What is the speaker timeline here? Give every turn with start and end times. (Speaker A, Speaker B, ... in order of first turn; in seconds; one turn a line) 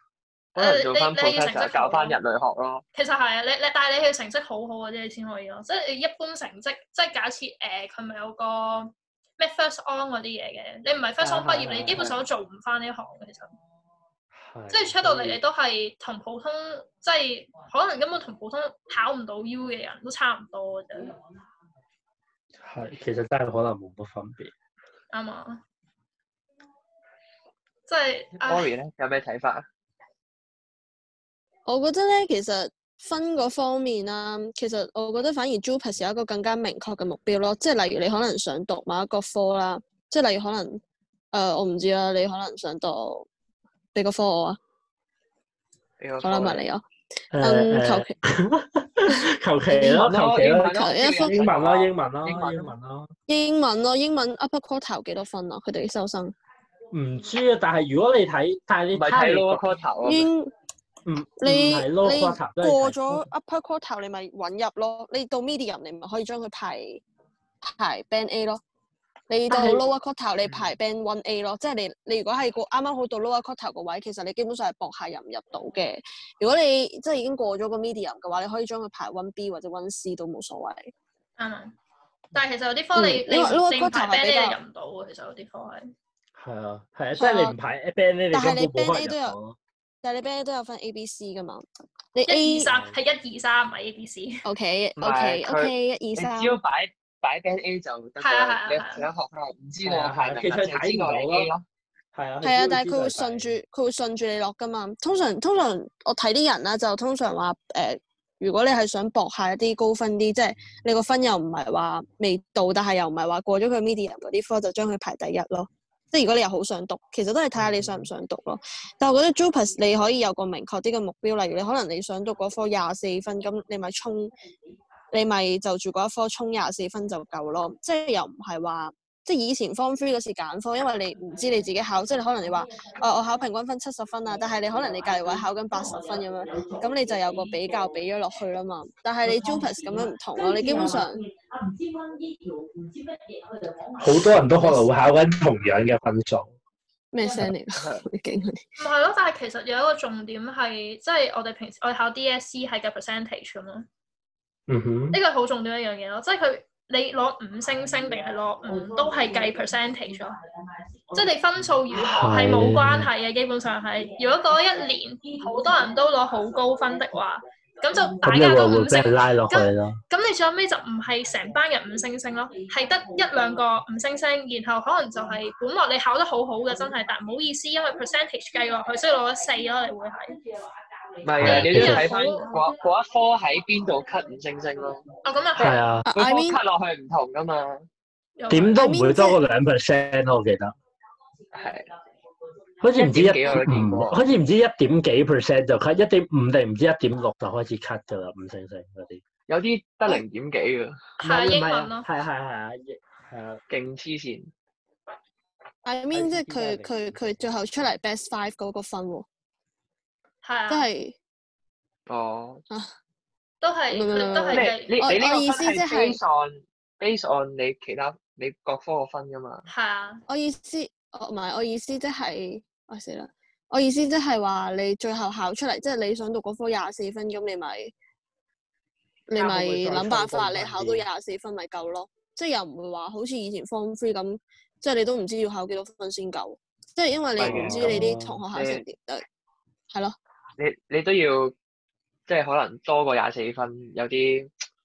Speaker A: 0.5-2.8
Speaker B: 0.6-2.2
Speaker B: 2.9-13.5
Speaker C: 11.2-12.1
Speaker C: 14.3-15.4
Speaker B: 14.7-21.1
Speaker C: 22.6-24.5
Speaker B: 25.1-25.6
Speaker B: 27.9-28.7
Speaker A: 28.4-29.6
Speaker D: 31.6-40.8
Speaker D: 41.3-43.3
Speaker D: 43.9-44.6
Speaker A: 46.0-46.6
Speaker D: 46.2-46.8
Speaker C: 47.3-53.1
Speaker D: 47.4-48.1
Speaker D: 49.1-50.0
Speaker A: 49.8-52.7
Speaker D: 50.7-51.4
Speaker D: 53.3-56.3
Speaker C: 56.9-59.6
Speaker A: 58.9-60.3
Speaker D: 60.0-60.5
Speaker C: 61.0-63.3
Speaker D: 61.4-67.0
Speaker D: 67.6-68.6
Speaker D: 69.3-80.9
Speaker C: 69.5-69.8
Speaker B: 81.4-81.7
Speaker B: 82.3-85.9
Speaker D: 82.9-84.6
Speaker C: 86.3-89.6
Speaker D: 87.2-87.5
Speaker D: 88.3-89.3
Speaker D: 90.0-92.7
Speaker B: 92.2-94.4
Speaker C: 92.7-93.0
Speaker D: 94.4-96.6
Speaker A: 95.0-101.6
Speaker B: 98.2-99.1
Speaker C: 99.8-101.5
Speaker C: 102.1-103.5
Speaker D: 102.4-124.3
Speaker C: 117.5-118.1
Speaker D: 125.1-141.2
Speaker E: 134.5-137.9
Speaker E: 139.2-144.0
Speaker C: 144.0-146.5
Speaker D: 147.1-148.6
Speaker A: 147.7-148.0
Speaker B: 148.8-153.9
Speaker C: 154.7-155.2
Speaker B: 155.1-160.4
Speaker E: 158.7-160.2
Speaker B: 161.1-180.4
Speaker C: 161.9-163.1
Speaker E: 165.2-165.9
Speaker C: 168.2-170.0
Speaker E: 181.2-182.7
Speaker A: 181.2-185.0
Speaker C: 181.4-182.1
Speaker B: 181.4-182.5
Speaker B: 185.2-185.8
Speaker A: 185.6-187.9
Speaker C: 185.6-186.1
Speaker D: 186.0-186.6
Speaker B: 188.4-188.8
Speaker C: 188.5-190.7
Speaker D: 188.7-189.4
Speaker A: 191.5-191.9
Speaker C: 192.8-199.2
Speaker A: 193.0-194.2
Speaker A: 199.5-201.0
Speaker B: 201.2-202.1
Speaker C: 201.2-203.6
Speaker A: 203.7-204.5
Speaker D: 205.8-209.2
Speaker C: 206.1-207.5
Speaker B: 210.4-210.8
Speaker D: 210.7-211.2
Speaker A: 212.1-212.6
Speaker B: 213.6-215.0
Speaker D: 213.9-216.2
Speaker A: 214.5-219.7
Speaker B: 219.7-220.2
Speaker D: 220.3-227.9
Speaker D: 229.3-239.2
Speaker C: 229.3-231.0
Speaker A: 237.4-238.0
Speaker C: 237.4-238.4
Speaker A: 238.5-238.8
Speaker A: 240.6-241.5
Speaker A: 242.3-244.5